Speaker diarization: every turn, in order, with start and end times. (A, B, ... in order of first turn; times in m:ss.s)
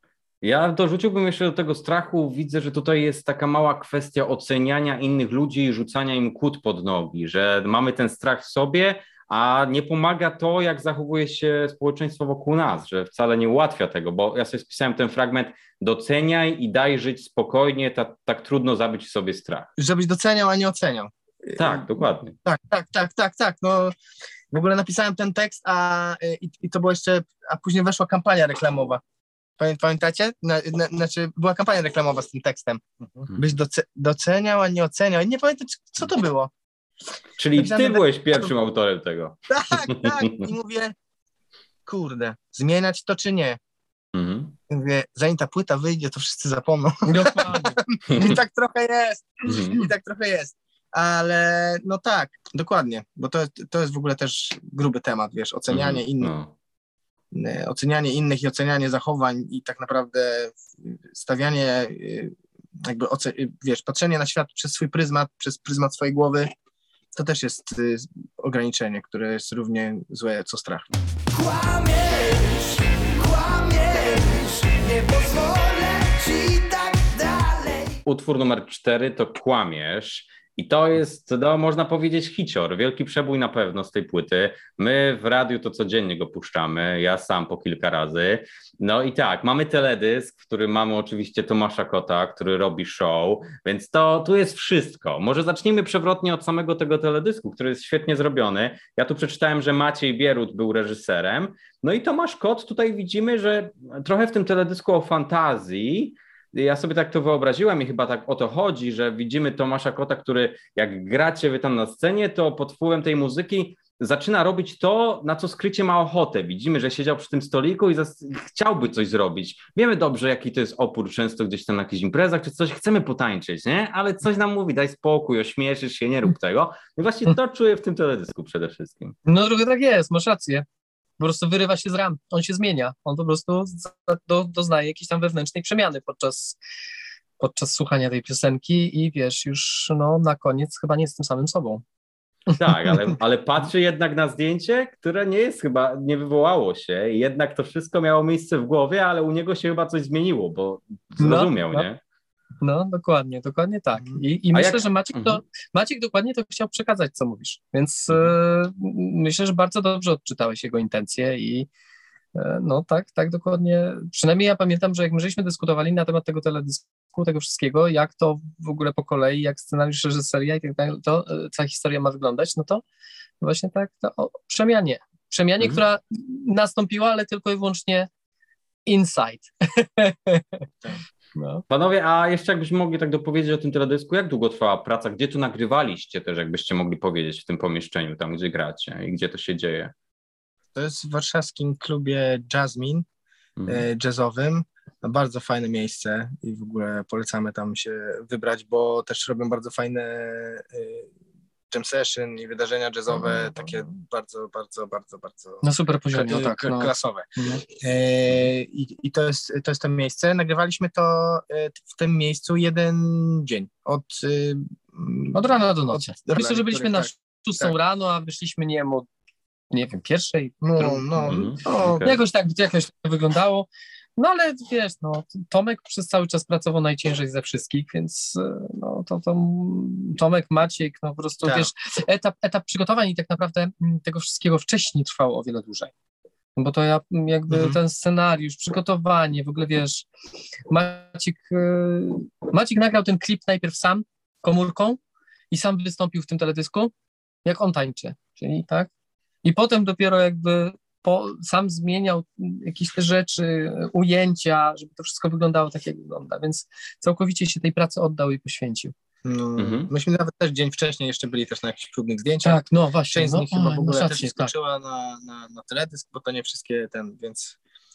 0:00.4-0:19.7 A
0:19.8-0:21.7 B
0:21.6-0:22.4 A
0:22.4-0:24.0 B
0:24.5-0:29.0 B
0:29.6-0:36.5 B
0:37.4-0:40.5 A
0:37.6-0:38.5 B
0:39.5-0:41.0 B
0:41.9-0:43.6 B
0:44.1-0:44.6 A
0:44.7-0:56.3 B
0:47.1-0:47.8 C
0:49.5-0:49.8 A
0:55.7-0:56.5 A
0:57.3-1:06.5 B
1:07.2-1:10.9 B
1:11.3-1:18.0 D
1:18.1-2:09.2 A
2:09.3-2:10.7 C
2:11.2-2:16.6 C
2:17.4-2:21.8 C
2:22.5-2:32.0 A
2:31.2-2:31.9 C
2:32.6-2:41.7 C
2:34.5-2:35.4 A
2:42.4-2:52.8 C
2:53.4-2:58.1 C
2:58.9-3:00.6 C
3:01.4-3:01.6 C
3:01.7-3:09.9 A
3:10.8-3:13.0 B
3:13.6-3:13.9 A
3:13.7-3:21.1 B
3:21.7-3:37.7 B
3:25.6-3:27.6 C
3:35.3-3:39.1 C
3:39.7-3:55.9 C
3:40.6-3:41.5 B
3:41.3-3:42.2 A
3:51.4-3:51.7 B
3:56.6-4:00.1 C
3:57.5-3:57.8 B
4:00.7-4:05.0 C
4:05.5-4:06.9 C
4:07.4-4:08.9 C
4:09.4-4:18.9 C
4:19.2-4:27.6 B
4:19.6-4:19.9 A
4:22.4-4:24.5 C